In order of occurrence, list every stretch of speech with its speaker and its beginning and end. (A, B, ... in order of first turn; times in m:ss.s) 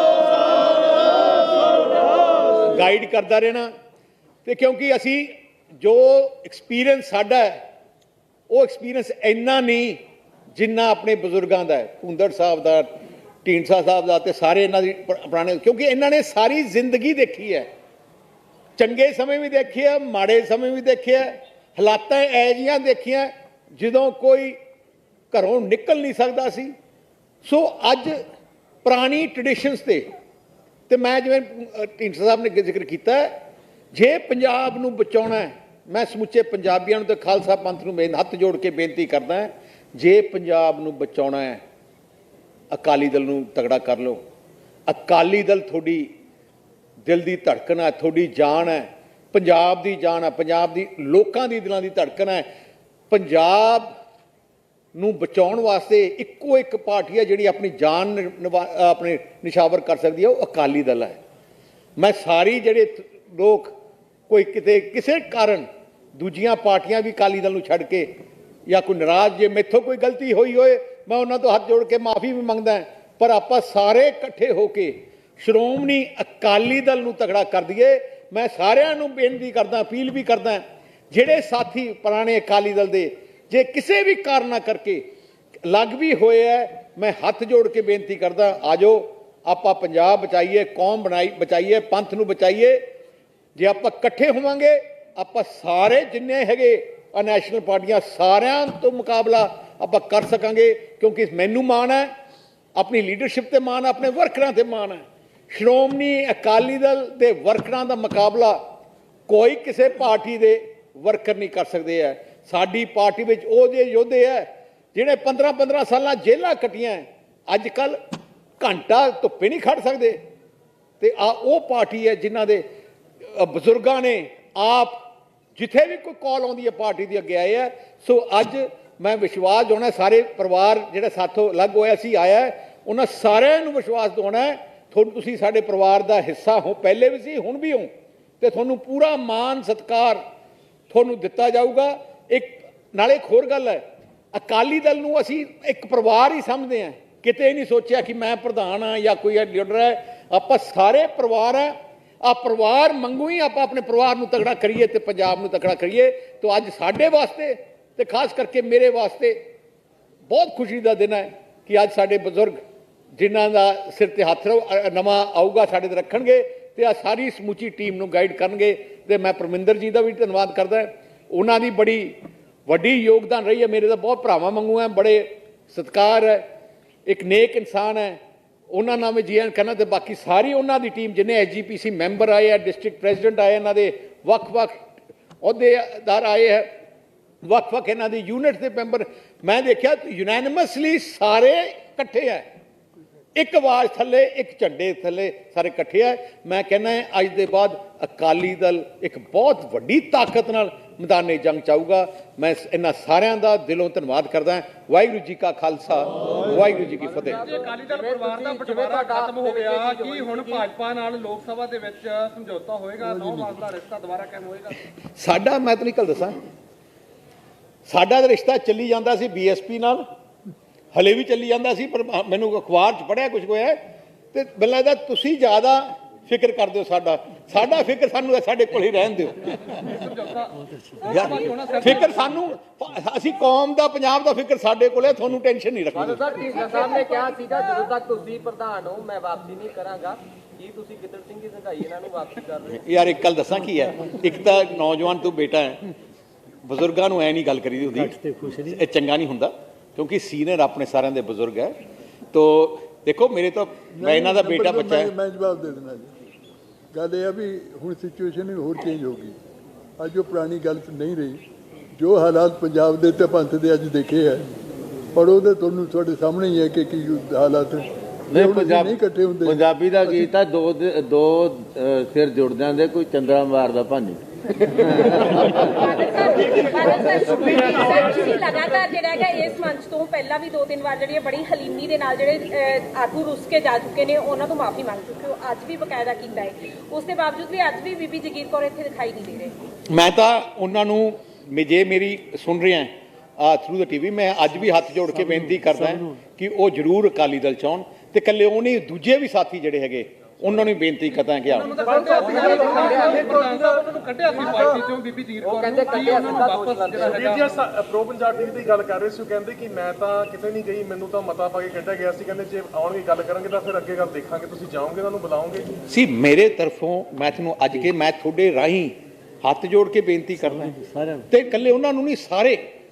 0:02.6-0:03.7 A
0:04.4-0:07.6 A
0:08.5-0:10.0 A
0:10.6-0:12.9 A
0:13.4-0:17.7 A
0:18.8-0:24.6 A
0:25.3-0:26.7 A
0:27.4-0:28.2 A
0:28.8-0:30.1 A
0:30.9-0:33.3 A
0:33.9-0:41.6 A
0:42.7-0:44.2 A
0:44.9-0:46.1 A
0:47.1-0:52.5 A
0:53.1-0:53.9 A
0:55.0-1:01.2 A
1:02.0-1:03.7 A
1:04.3-1:08.1 A
1:08.7-1:25.0 A
1:25.6-1:32.8 A
1:33.6-1:42.1 A
1:42.8-1:48.6 A
1:49.3-1:58.0 A
1:58.6-2:00.2 A
2:01.0-2:02.6 A
2:03.2-2:05.0 A
2:05.6-2:17.9 A
2:18.4-2:20.2 A
2:20.9-2:23.8 A
2:24.3-2:39.4 A
2:40.3-2:42.6 A
2:43.2-2:52.2 A
2:52.7-2:56.4 A
2:57.1-2:58.2 A
2:58.7-3:04.8 A
3:05.4-3:06.7 A
3:07.4-3:12.4 A
3:13.4-3:27.4 A
3:27.4-3:34.8 B
3:27.9-3:30.6 C
3:33.2-3:33.5 D
3:35.2-3:36.4 A
3:37.9-3:40.0 A
3:40.9-3:43.8 A
3:44.3-3:50.0 A
3:49.8-3:52.3 B
3:51.0-3:56.3 A
3:56.0-3:58.4 C
4:01.0-4:02.4 C
4:02.7-4:05.9 A
4:06.6-4:11.8 A
4:08.3-4:08.6 B
4:12.3-4:15.1 A
4:14.0-4:16.1 D
4:16.9-4:19.4 D
4:20.0-4:21.4 D
4:22.0-4:24.5 D
4:25.2-4:30.3 D
4:28.3-4:35.8 E
4:35.2-4:49.6 F
4:37.0-4:37.5 E
4:49.9-5:01.8 A
4:55.6-4:56.0 B
5:01.5-5:07.5 B
5:01.7-5:04.9 G
5:05.4-5:07.4 C
5:06.9-5:15.7 G
5:15.9-5:22.6 A
5:20.8-5:21.2 B